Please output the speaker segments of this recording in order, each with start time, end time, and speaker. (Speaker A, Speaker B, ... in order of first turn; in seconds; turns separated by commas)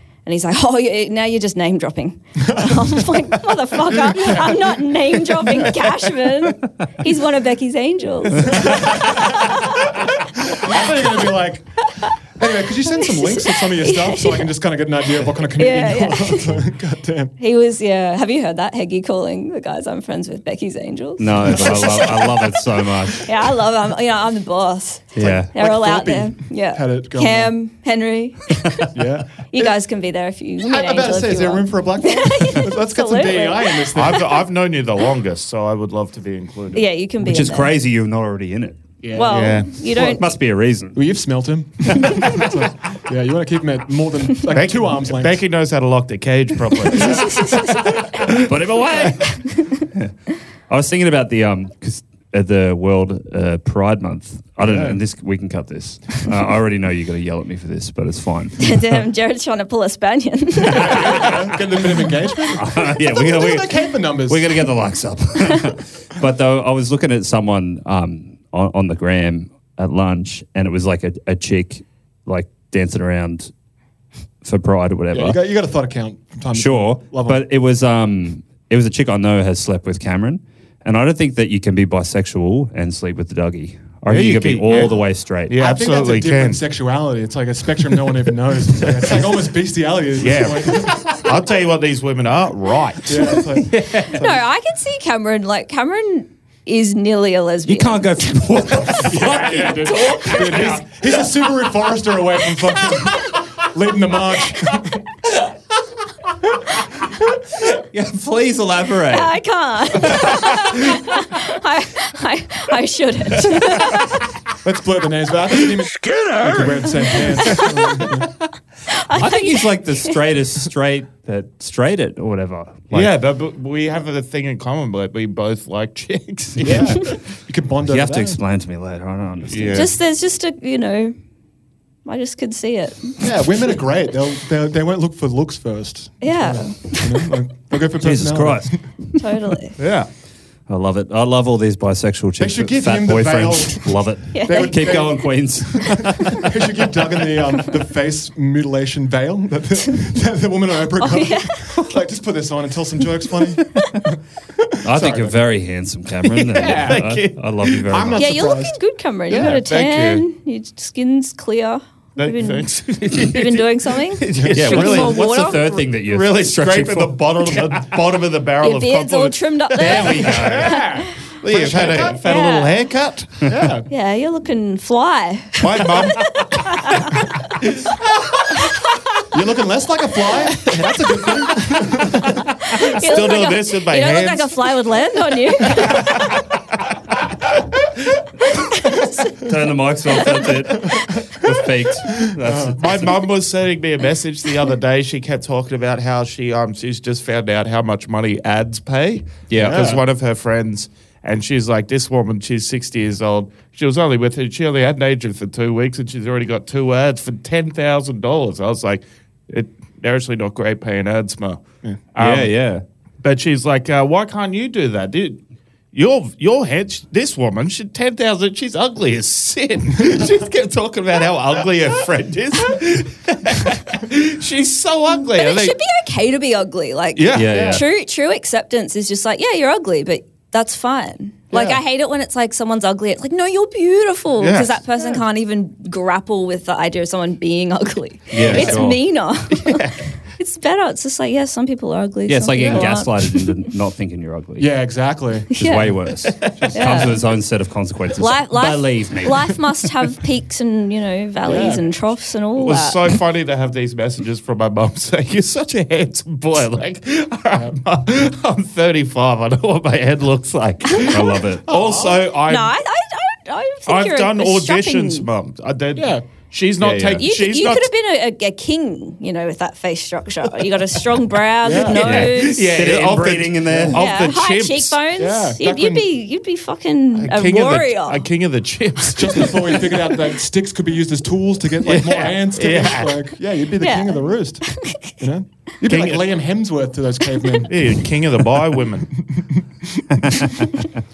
Speaker A: 0.2-10.0, Speaker B: 2.5-3.3, Speaker B: 3.9-4.6, Speaker B: 5.4-5.9, Speaker B: 8.4-17.3, Speaker A: 12.9-14.5, Speaker A: 15.5-16.6, Speaker A: 17.4-22.4, Speaker C: 21.2-23.3, Speaker B: 21.4-22.5, Speaker A: 23.2-34.0, Speaker C: 25.1-25.5, Speaker B: 25.2-27.5, Speaker B: 28.9-29.7, Speaker B: 30.6-34.3, Speaker D: 33.9-36.8, Speaker A: 36.7-37.7, Speaker C: 37.2-38.8, Speaker B: 39.0-40.2, Speaker A: 39.1-40.2, Speaker D: 39.3-39.7, Speaker C: 39.9-41.0, Speaker B: 40.9-45.4, Speaker C: 41.9-42.5, Speaker D: 44.5-47.5, Speaker A: 46.9-48.4, Speaker B: 47.0-47.3, Speaker C: 48.3-59.0, Speaker A: 49.2-49.8, Speaker B: 54.6-55.0, Speaker A: 58.6-61.4, Speaker B: 60.6-64.7, Speaker C: 60.8-61.3, Speaker C: 62.5-63.7, Speaker C: 64.2-73.5, Speaker C: 74.4-75.4, Speaker B: 75.1-77.4, Speaker C: 76.5-85.5, Speaker D: 84.0-86.6, Speaker B: 85.6-91.3, Speaker D: 90.2-94.1, Speaker B: 93.0-94.4, Speaker A: 93.9-98.9, Speaker C: 97.7-100.8, Speaker B: 98.8-105.1, Speaker C: 107.7-109.3, Speaker A: 109.1-114.2, Speaker C: 110.1-110.6, Speaker B: 114.6-118.3, Speaker C: 116.0-117.1, Speaker A: 117.4-118.0, Speaker A: 118.9-120.2, Speaker C: 119.1-123.1, Speaker D: 122.9-127.2, Speaker B: 126.6-128.4, Speaker C: 127.9-129.9, Speaker D: 129.5-129.9, Speaker A: 129.7-131.1, Speaker A: 132.0-133.2, Speaker B: 133.2-138.8, Speaker A: 136.2-137.3, Speaker C: 138.0-139.2, Speaker A: 139.2-139.8, Speaker D: 139.8-140.1, Speaker C: 140.7-146.5, Speaker B: 142.4-155.4, Speaker A: 144.3-145.1, Speaker A: 151.0-151.8, Speaker C: 154.8-158.3, Speaker D: 156.2-158.0, Speaker B: 156.5-157.1, Speaker B: 157.9-158.8, Speaker A: 158.2-165.8, Speaker D: 159.3-160.2, Speaker D: 162.2-170.5, Speaker B: 164.3-164.6, Speaker C: 164.5-167.3, Speaker A: 168.6-171.1, Speaker C: 169.7-170.9, Speaker B: 170.3-172.2, Speaker D: 171.4-173.4, Speaker A: 172.2-172.7, Speaker B: 173.4-173.9, Speaker A: 173.9-177.3, Speaker D: 175.6-176.6, Speaker D: 177.6-178.0, Speaker B: 179.3-182.5, Speaker A: 182.6-186.4, Speaker D: 182.7-184.8, Speaker D: 185.7-186.1, Speaker A: 188.6-189.4, Speaker C: 189.3-193.1, Speaker B: 190.8-191.3, Speaker B: 192.1-192.8, Speaker D: 192.7-211.6, Speaker C: 199.5-199.9, Speaker B: 199.6-200.0, Speaker D: 212.1-212.5, Speaker C: 212.2-212.8, Speaker D: 213.2-215.4, Speaker D: 215.9-225.8, Speaker A: 225.3-243.5, Speaker D: 227.2-227.8, Speaker C: 227.3-227.8, Speaker B: 231.5-231.8, Speaker D: 234.4-234.8, Speaker C: 238.3-239.0, Speaker B: 238.4-238.8, Speaker D: 238.4-238.8, Speaker D: 239.5-239.9, Speaker C: 242.3-244.7, Speaker B: 242.6-242.9, Speaker B: 244.6-245.5, Speaker A: 245.5-246.0, Speaker C: 245.5-249.6, Speaker B: 246.6-247.1, Speaker A: 246.7-247.2, Speaker A: 248.2-253.1, Speaker B: 251.4-251.8, Speaker D: 252.6-262.8, Speaker B: 257.5-257.8, Speaker A: 260.9-261.4, Speaker C: 261.1-261.6, Speaker B: 261.6-262.3, Speaker A: 262.4-265.3, Speaker D: 263.9-267.9, Speaker B: 265.9-266.2, Speaker C: 266.8-267.2, Speaker A: 267.2-272.6, Speaker B: 271.6-272.3, Speaker C: 271.9-274.0, Speaker D: 271.9-275.0, Speaker B: 273.6-274.0, Speaker A: 273.9-278.2, Speaker B: 275.2-276.1, Speaker D: 277.1-280.1, Speaker B: 279.1-288.0, Speaker D: 281.8-283.2, Speaker A: 283.8-285.2, Speaker D: 285.9-286.3, Speaker D: 287.7-289.1, Speaker B: 289.3-290.0, Speaker C: 290.2-290.8